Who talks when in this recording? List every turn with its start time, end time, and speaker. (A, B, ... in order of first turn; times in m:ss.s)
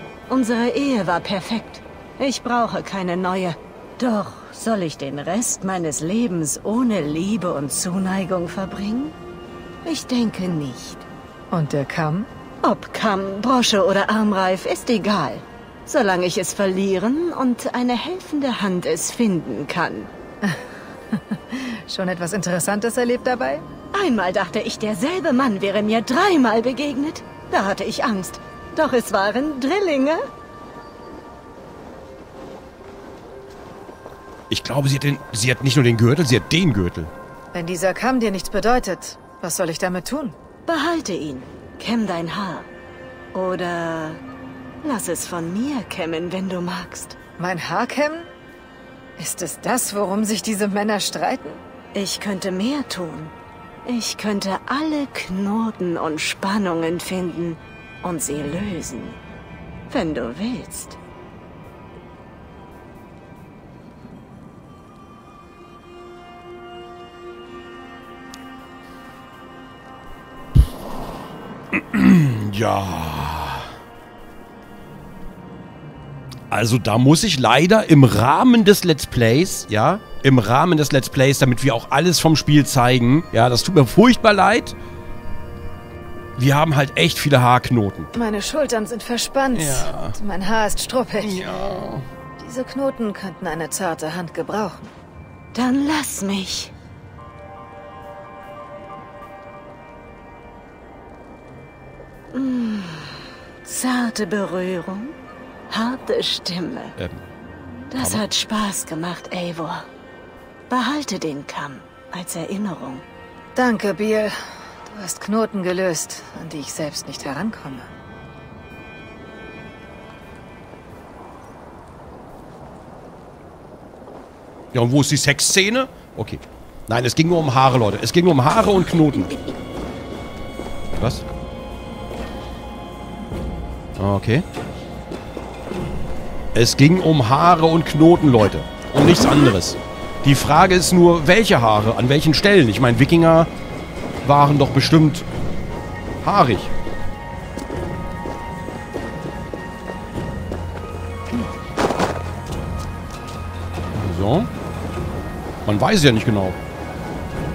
0:00.3-0:09.2 A
0:09.8-0:11.0 A
0:11.5-0:12.3 B
0:12.6-0:20.1 A
0:21.1-0:23.6 B
0:23.9-0:30.2 A
0:34.5-0:37.1 C
0:37.5-0:40.4 B
0:40.7-0:42.7 A
0:43.3-0:44.2 A
0:44.8-0:47.2 A
0:47.4-0:48.3 B
0:49.2-0:51.6 B
0:51.9-0:53.3 A
0:53.8-0:59.2 A
0:59.9-1:01.0 A
1:11.7-1:13.7 C
1:16.5-1:24.8 C
1:26.4-1:28.1 C
1:28.2-1:31.4 B
1:29.6-1:30.2 C
1:31.2-1:32.1 C
1:32.4-1:34.9 B
1:35.5-1:36.7 A
1:42.3-1:45.2 A
1:45.7-1:47.0 A
1:47.0-1:47.2 C
1:47.9-1:49.9 A
1:48.0-1:48.2 C
1:50.7-1:53.0 A
1:53.6-1:57.9 B
2:04.7-2:09.3 C
2:11.0-2:11.2 C
2:14.0-2:14.4 C
2:16.5-2:23.5 C
2:24.2-2:25.3 C
2:26.2-2:26.7 C
2:33.9-2:34.5 C
2:35.7-2:36.6 C